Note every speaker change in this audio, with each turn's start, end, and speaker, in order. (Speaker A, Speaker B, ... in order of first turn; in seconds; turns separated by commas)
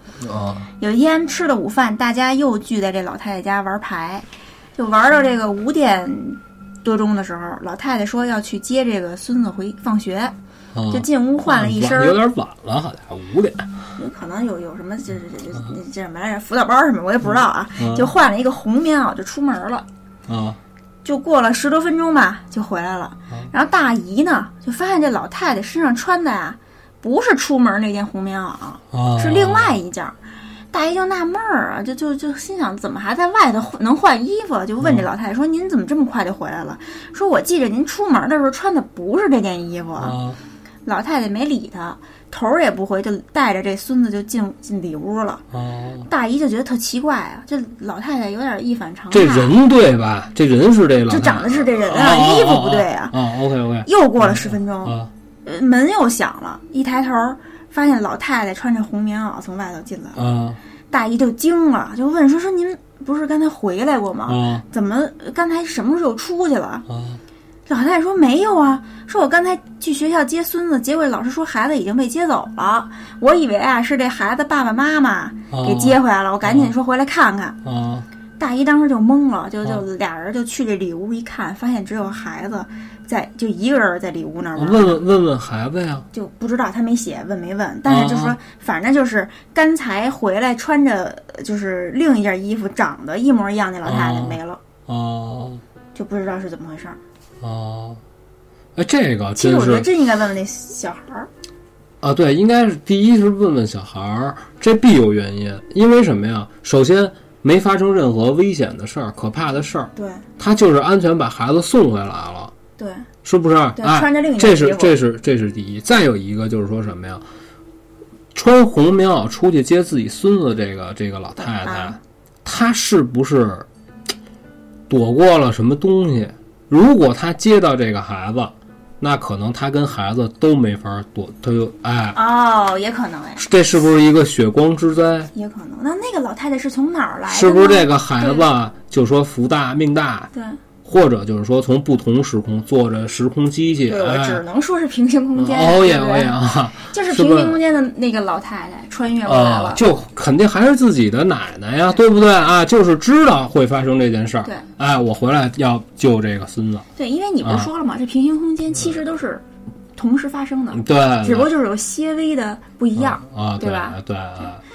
Speaker A: 0.2-0.7, Speaker B: 0.8-10.3, Speaker A: 10.7-13.7, Speaker B: 10.9-12.2, Speaker B: 14.0-19.9, Speaker A: 17.8-18.1, Speaker A: 20.3-20.6, Speaker B: 21.0-30.2, Speaker A: 28.9-29.8, Speaker B: 30.7-40.2, Speaker A: 34.8-35.1, Speaker A: 40.0-40.4, Speaker B: 40.9-45.4, Speaker A: 45.5-46.1, Speaker B: 46.1-49.6, Speaker A: 49.1-55.1, Speaker B: 51.1-53.2, Speaker B: 53.9-60.2, Speaker A: 60.1-60.6, Speaker B: 60.9-66.8, Speaker A: 64.3-64.7, Speaker A: 66.9-67.2, Speaker B: 67.7-77.6, Speaker A: 75.5-76.7, Speaker A: 77.6-78.1, Speaker B: 78.4-85.0, Speaker A: 84.6-86.1, Speaker B: 86.1-94.6, Speaker A: 87.9-88.4, Speaker A: 93.8-95.6, Speaker B: 96.0-97.0, Speaker A: 97.4-98.0, Speaker A: 98.8-99.9, Speaker B: 99.4-101.3, Speaker A: 102.0-112.5, Speaker B: 110.0-110.3, Speaker B: 112.8-113.1, Speaker A: 113.2-117.2, Speaker B: 113.8-115.0, Speaker A: 118.3-123.7, Speaker B: 121.4-122.0, Speaker A: 124.9-132.2, Speaker B: 132.2-133.4, Speaker A: 133.4-135.3, Speaker B: 135.3-138.5, Speaker A: 137.3-140.3, Speaker B: 140.3-140.6, Speaker A: 140.8-144.4, Speaker B: 143.9-149.8, Speaker A: 145.3-147.6, Speaker A: 149.3-156.9, Speaker B: 157.0-159.4, Speaker A: 157.4-157.7, Speaker B: 160.0-164.0, Speaker A: 160.7-161.5, Speaker A: 162.9-164.6